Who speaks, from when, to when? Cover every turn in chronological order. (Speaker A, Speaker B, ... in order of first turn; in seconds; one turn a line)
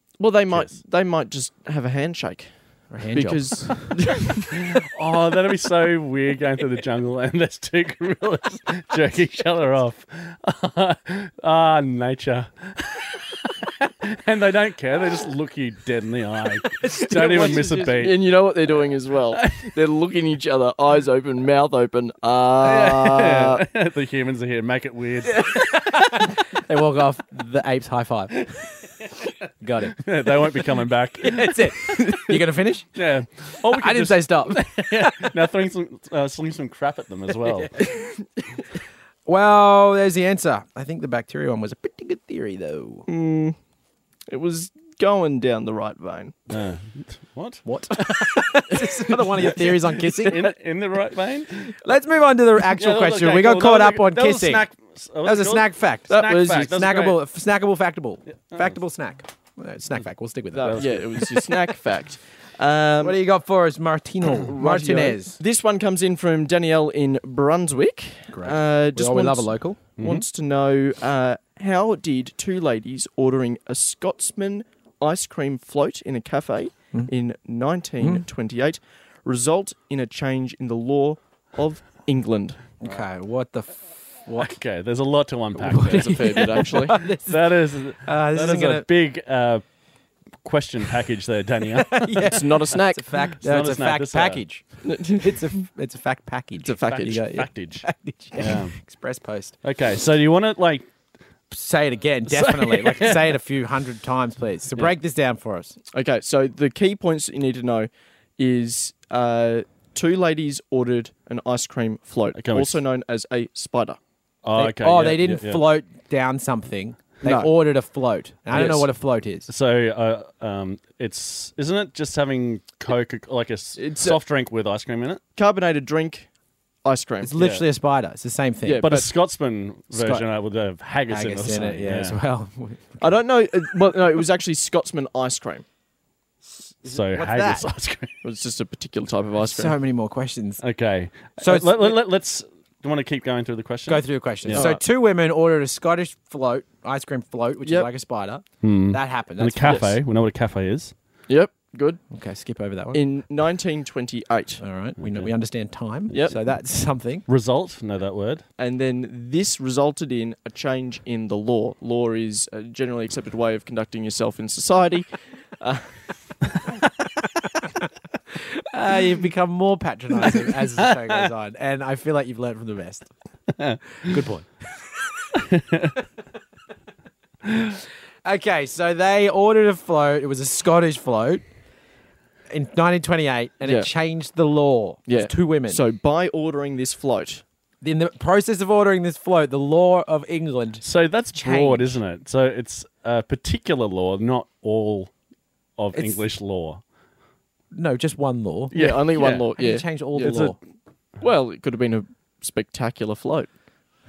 Speaker A: 0.2-4.5
Speaker B: 0.5-0.8
Speaker C: 2.9-4.0
Speaker B: 4.7-18.4
Speaker C: 16.8-18.1
Speaker A: 17.2-23.6
Speaker B: 19.4-19.7
Speaker B: 22.6-26.2
Speaker C: 25.2-28.8
Speaker C: 29.6-32.9
Speaker B: 30.0-32.2
Speaker B: 32.9-37.9
Speaker C: 33.6-35.3
Speaker C: 37.8-38.0
Speaker C: 39.2-43.1
Speaker A: 43.1-43.6
Speaker A: 44.3-46.3
Speaker B: 46.5-48.5
Speaker C: 47.6-50.5
Speaker B: 49.4-51.7
Speaker C: 51.8-54.7
Speaker B: 52.7-57.2
Speaker C: 55.2-61.5
Speaker A: 56.1-56.8
Speaker A: 60.5-63.2
Speaker B: 60.6-61.1
Speaker C: 63.0-65.4
Speaker A: 64.4-82.6
Speaker C: 68.3-69.8
Speaker B: 70.0-70.2
Speaker C: 82.8-84.6
Speaker B: 84.4-89.7
Speaker C: 85.6-88.9
Speaker A: 85.9-87.1
Speaker B: 90.4-92.3
Speaker C: 91.9-99.5
Speaker A: 92.3-93.1
Speaker B: 93.3-94.4
Speaker A: 94.8-95.3
Speaker A: 96.6-97.2
Speaker B: 96.9-98.8
Speaker B: 99.6-100.9
Speaker C: 101.5-105.7
Speaker B: 102.2-103.4
Speaker A: 105.9-114.0
Speaker B: 112.3-112.8
Speaker B: 114.4-115.6
Speaker C: 114.5-119.5
Speaker A: 117.2-117.5
Speaker B: 118.5-118.9
Speaker A: 118.5-118.8
Speaker B: 119.5-125.2
Speaker A: 123.8-124.2
Speaker A: 125.3-126.3
Speaker A: 126.8-127.3
Speaker C: 127.2-129.0
Speaker B: 127.4-127.6
Speaker A: 128.6-129.1
Speaker B: 128.8-132.2
Speaker C: 129.9-130.3
Speaker C: 131.1-133.0
Speaker A: 133.0-135.6
Speaker C: 136.6-137.7
Speaker B: 136.8-138.2
Speaker A: 138.2-139.8
Speaker C: 139.4-140.6
Speaker B: 140.6-144.7
Speaker C: 141.4-142.0
Speaker C: 143.9-149.9
Speaker A: 144.5-144.8
Speaker A: 147.6-147.9
Speaker B: 148.6-150.9
Speaker A: 149.6-149.9
Speaker A: 151.3-152.0
Speaker C: 152.1-153.0
Speaker A: 152.9-154.6
Speaker C: 154.6-157.2
Speaker B: 155.0-155.3
Speaker A: 156.1-156.3
Speaker B: 157.3-158.4
Speaker A: 158.6-166.0
Speaker C: 168.6-173.1
Speaker B: 170.8-171.3
Speaker B: 173.6-174.2
Speaker C: 174.0-174.5
Speaker B: 175.3-175.9
Speaker B: 177.4-177.7
Speaker C: 178.2-181.4
Speaker C: 182.5-185.8
Speaker A: 183.6-183.9
Speaker A: 185.1-187.4
Speaker C: 187.8-192.0
Speaker B: 190.8-195.1
Speaker B: 195.8-196.8
Speaker C: 195.9-196.2
Speaker C: 197.7-200.6
Speaker B: 198.7-199.5
Speaker A: 198.7-200.5
Speaker B: 200.2-200.5
Speaker A: 201.2-203.5